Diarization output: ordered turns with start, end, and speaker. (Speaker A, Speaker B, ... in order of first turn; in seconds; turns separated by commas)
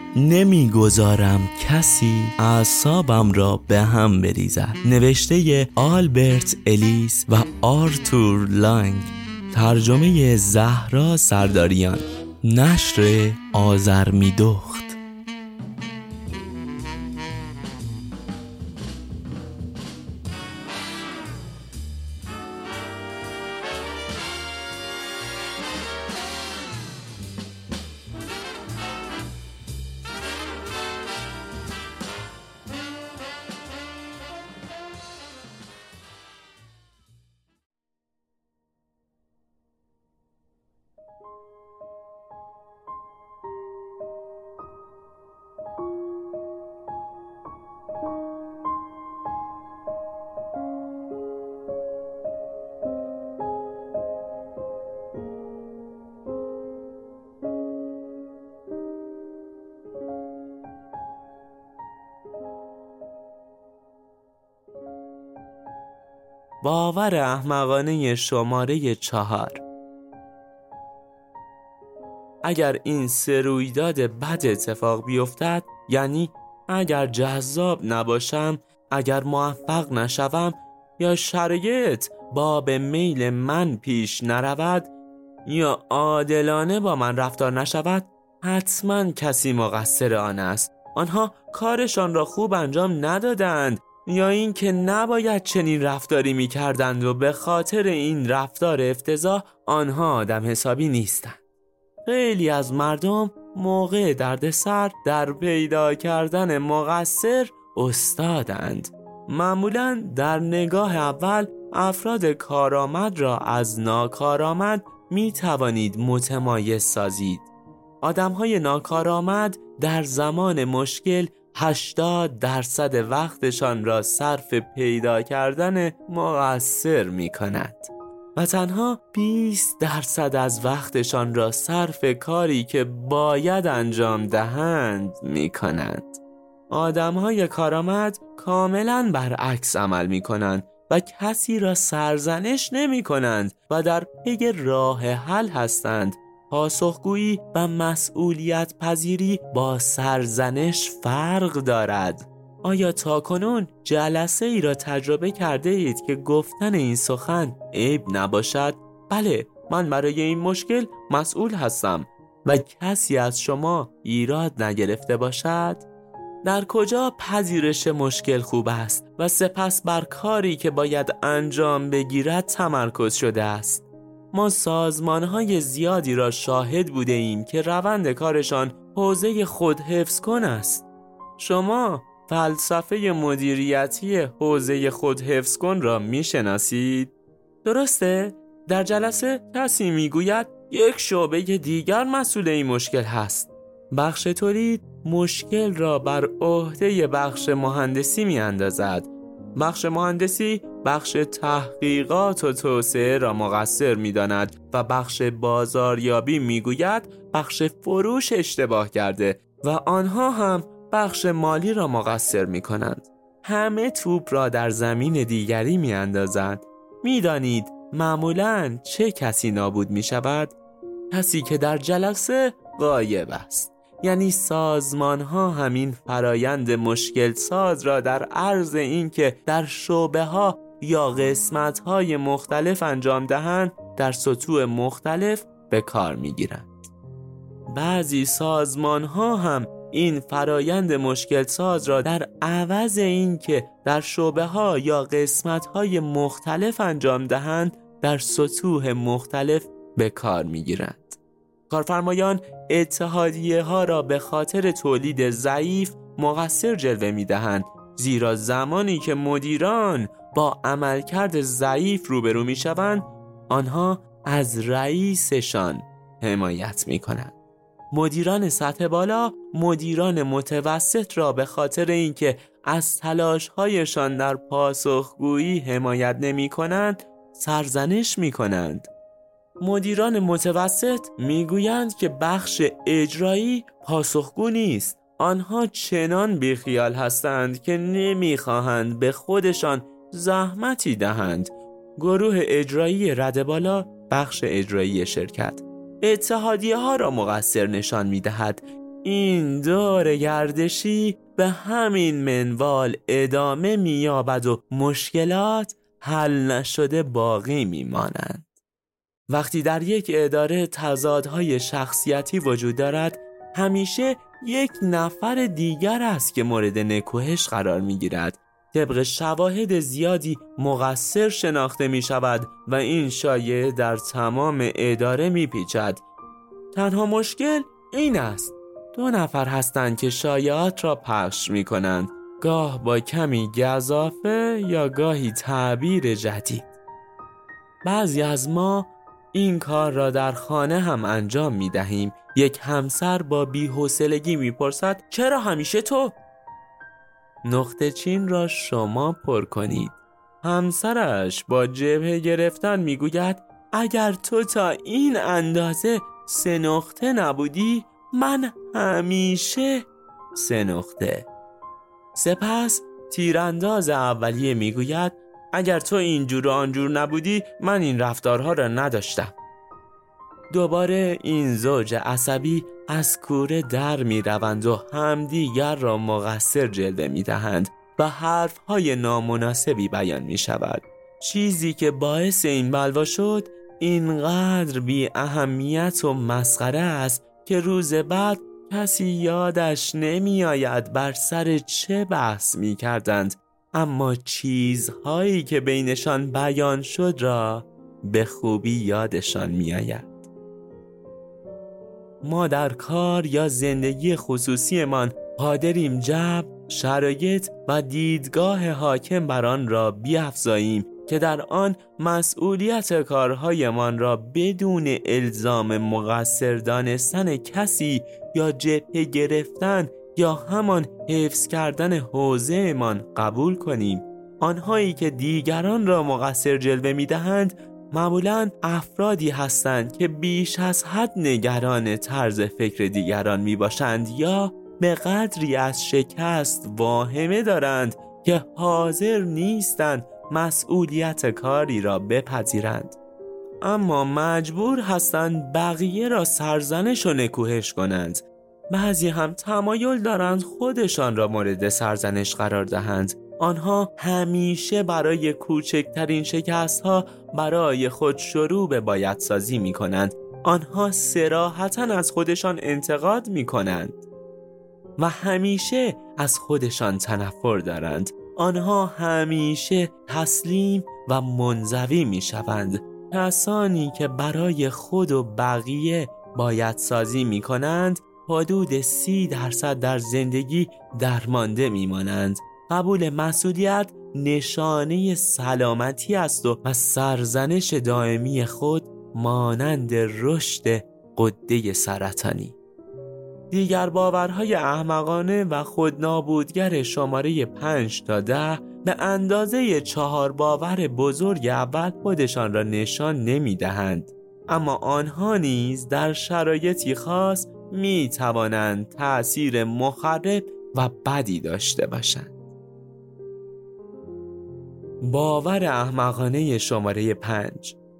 Speaker A: 0.1-15.0, Speaker A: 66.6-69.6, Speaker A: 72.4-84.9, Speaker A: 85.5-101.4, Speaker A: 102.0-117.5, Speaker A: 118.0-165.8, Speaker A: 166.4-180.8, Speaker A: 181.4-187.1, Speaker A: 187.6-220.6, Speaker A: 221.1-236.7, Speaker A: 237.7-267.3, Speaker A: 267.9-278.9, Speaker A: 279.6-308.5, Speaker A: 309.3-326.0, Speaker A: 326.7-336.7, Speaker A: 337.8-346.2, Speaker A: 347.4-361.3, Speaker A: 362.1-369.4, Speaker A: 370.5-400.2, Speaker A: 402.2-442.9, Speaker A: 443.6-464.0, Speaker A: 465.0-492.6, Speaker A: 493.5-512.3, Speaker A: 515.0-517.8